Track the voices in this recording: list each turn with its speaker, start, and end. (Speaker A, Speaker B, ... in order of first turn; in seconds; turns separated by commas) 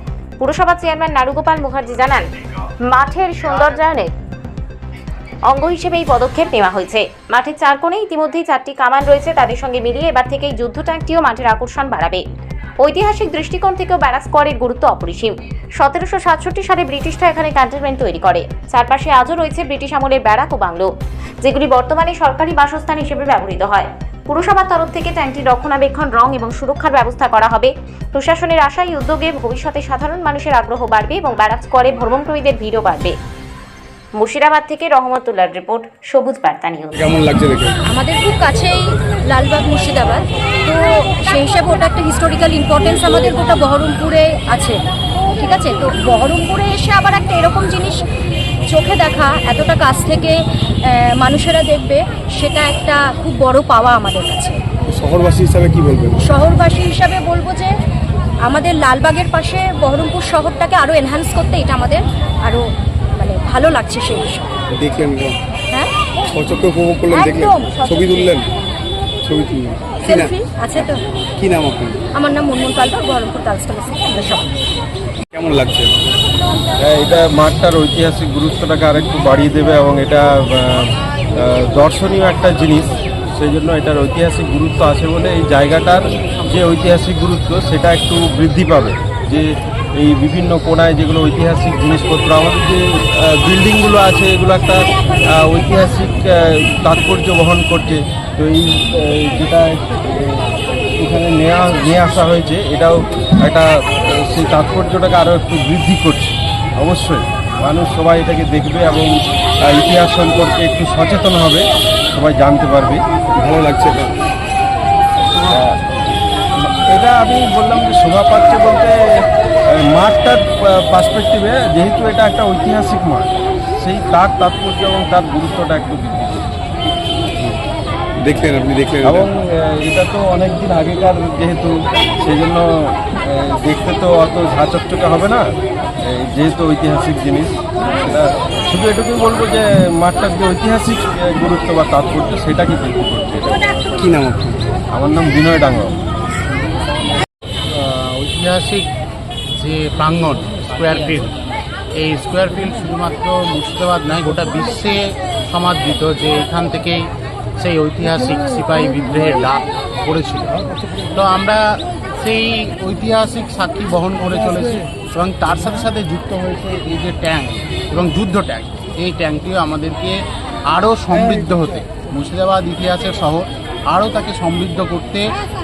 Speaker A: 0.4-2.4, Speaker A: 2.9-4.1, Speaker A: 5.5-12.2, Speaker A: 12.8-20.9, Speaker A: 21.4-33.1, Speaker A: 34.2-37.1, Speaker B: 37.0-37.8, Speaker C: 37.9-44.8, Speaker C: 45.4-48.0, Speaker C: 48.7-54.6, Speaker B: 54.9-56.2, Speaker C: 56.2-57.7, Speaker C: 58.4-62.6, Speaker C: 63.2-64.5, Speaker B: 64.7-65.4, Speaker B: 66.3-68.5, Speaker C: 67.1-68.4, Speaker B: 69.2-72.0, Speaker C: 70.0-71.0, Speaker C: 72.1-74.5, Speaker B: 75.3-75.9, Speaker D: 76.8-109.1, Speaker D: 109.7-113.0, Speaker B: 113.4-114.2, Speaker D: 115.5-115.8, Speaker D: 116.6-126.6, Speaker B: 128.2-129.3, Speaker D: 129.1-135.5, Speaker D: 136.0-143.7, Speaker B: 144.0-144.6, Speaker D: 144.9-146.0, Speaker E: 147.7-148.9, Speaker E: 149.6-151.3, Speaker E: 152.0-157.0, Speaker E: 157.6-160.6, Speaker E: 161.1-161.6, Speaker E: 162.2-170.2, Speaker E: 170.7-175.3